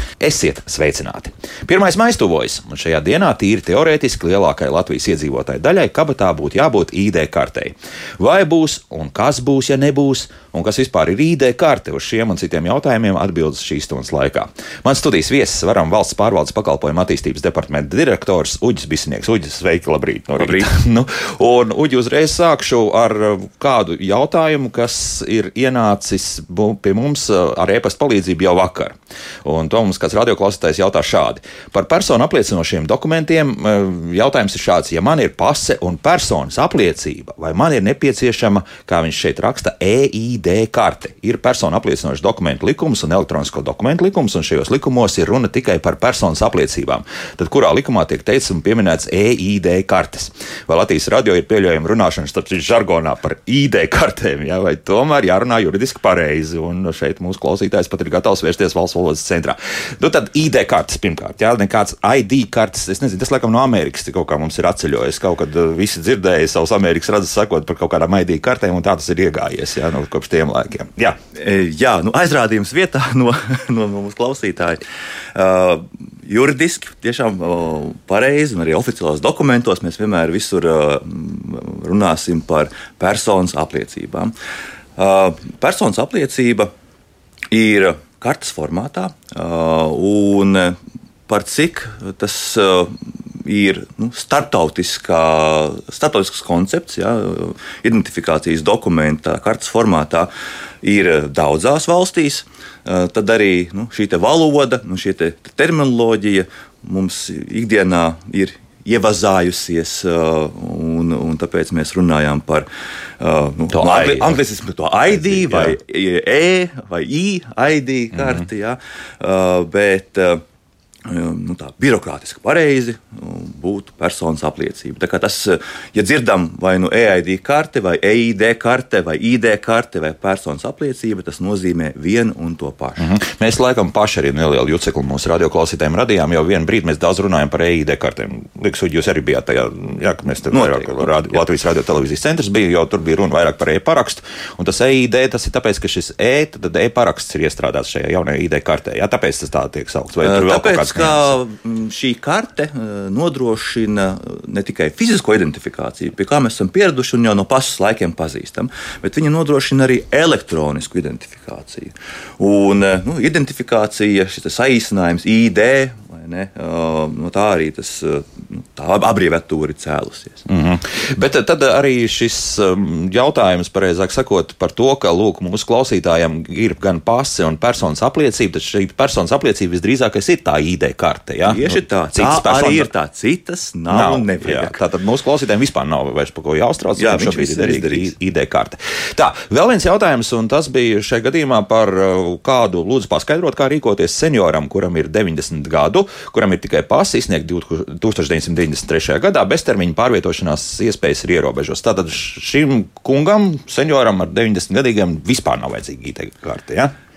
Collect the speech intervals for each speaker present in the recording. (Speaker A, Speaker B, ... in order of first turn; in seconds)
Speaker A: 0.2-71.2, 113.7-114.4, 115.1-115.8, 118.1-118.4, 133.0-151.4, 170.5-182.9, 183.9-206.9
Speaker B: 20.3-20.7, 71.3-74.8, 75.3-84.3, 85.0-86.7, 87.5-90.8, 91.3-100.3, 100.8-112.7, 113.2-120.4, 121.1-133.1, 140.5-141.4, 150.2-170.5, 181.4-184.8, 187.0-188.1